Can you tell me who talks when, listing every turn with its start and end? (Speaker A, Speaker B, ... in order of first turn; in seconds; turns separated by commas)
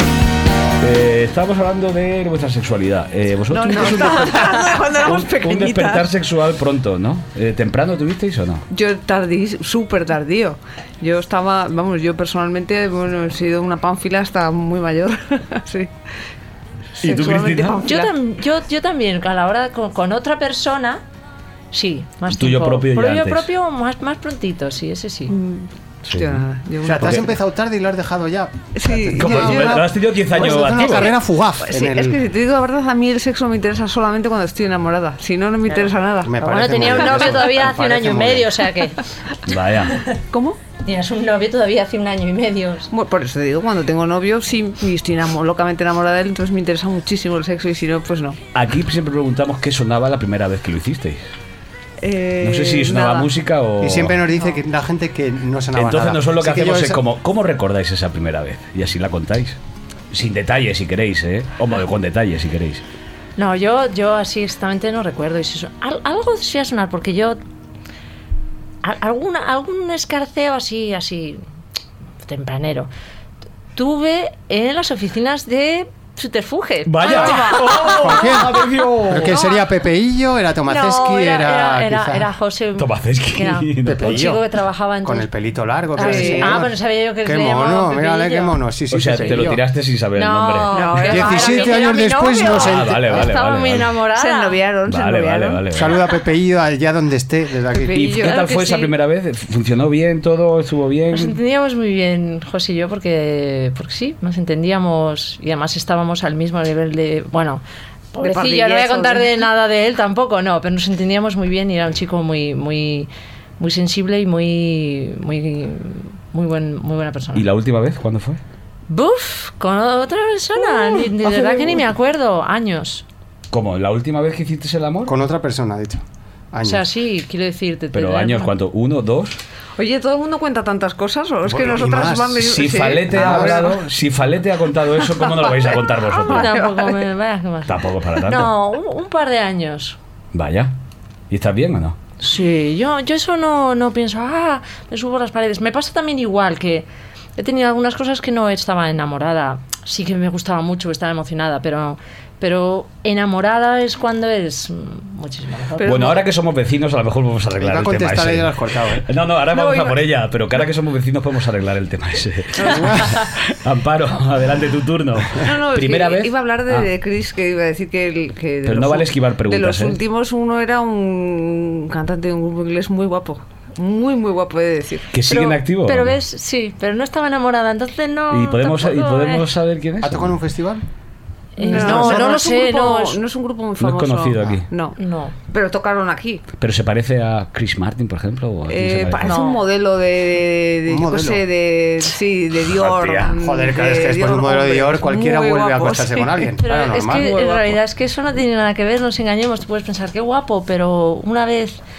Speaker A: 0.8-8.7, Speaker B: 3.5-6.1, Speaker B: 8.7-15.9, Speaker A: 17.0-17.9, Speaker B: 17.0-18.1, Speaker C: 17.8-21.0, Speaker C: 21.7-25.4, Speaker A: 22.3-23.5, Speaker B: 25.3-27.4, Speaker A: 26.1-26.4, Speaker D: 26.8-32.2, Speaker B: 28.8-29.8, Speaker A: 29.1-31.2, Speaker B: 30.7-31.1, Speaker B: 31.6-37.3, Speaker D: 36.2-38.6, Speaker C: 36.4-39.0, Speaker A: 39.5-40.0, Speaker B: 40.3-40.6, Speaker C: 40.8-42.9, Speaker B: 42.9-48.4, Speaker A: 48.5-51.2, Speaker B: 52.0-53.3, Speaker A: 52.4-54.2, Speaker D: 53.8-57.0, Speaker A: 55.8-59.6, Speaker A: 60.1-62.8, Speaker C: 63.4-67.4, Speaker C: 68.8-71.4, Speaker C: 72.2-72.9, Speaker C: 73.8-78.0, Speaker A: 76.9-79.4, Speaker B: 77.1-77.7, Speaker D: 77.8-82.3, Speaker B: 79.2-79.6, Speaker C: 80.7-85.3, Speaker A: 82.8-84.2, Speaker D: 83.8-84.4, Speaker D: 85.0-89.6, Speaker C: 86.0-88.6, Speaker B: 86.0-86.6, Speaker A: 88.9-91.0, Speaker C: 90.2-94.6, Speaker B: 90.7-91.9, Speaker D: 91.0-93.3, Speaker A: 92.5-94.0, Speaker B: 94.1-95.6, Speaker A: 94.9-96.0, Speaker D: 95.7-98.1, Speaker B: 97.7-98.6, Speaker A: 97.9-101.4, Speaker C: 98.2-98.9, Speaker C: 101.1-117.5, Speaker B: 108.2-109.4, Speaker A: 117.3-118.4, Speaker C: 118.9-123.0, Speaker A: 121.2-121.8, Speaker A: 123.5-125.1, Speaker D: 125.1-126.8, Speaker C: 126.6-128.5, Speaker A: 127.9-129.4, Speaker B: 129.8-133.8, Speaker D: 131.4-132.6, Speaker A: 132.4-136.6, Speaker D: 133.1-133.7, Speaker B: 135.1-137.0, Speaker C: 136.1-140.0, Speaker A: 137.7-138.5, Speaker A: 140.3-140.7, Speaker A: 141.3-142.0, Speaker C: 142.2-146.9, Speaker C: 147.4-156.2, Speaker B: 155.8-156.2, Speaker A: 155.8-166.9, Speaker D: 157.6-159.1, Speaker B: 159.5-160.0, Speaker B: 162.6-162.9, Speaker B: 165.4-175.1, Speaker A: 168.6-170.0, Speaker A: 175.1-176.2, Speaker C: 175.2-179.5, Speaker A: 178.3-180.4, Speaker D: 180.0-180.8, Speaker C: 181.6-183.2, Speaker B: 181.6-185.0, Speaker A: 183.8-184.7, Speaker C: 185.0-185.3, Speaker B: 185.5-186.4, Speaker A: 186.6-189.3, Speaker B: 188.7-196.6, Speaker C: 189.2-189.6, Speaker D: 190.9-191.4, Speaker A: 192.7-193.4, Speaker D: 193.4-197.6, Speaker C: 196.6-201.8, Speaker B: 197.2-197.6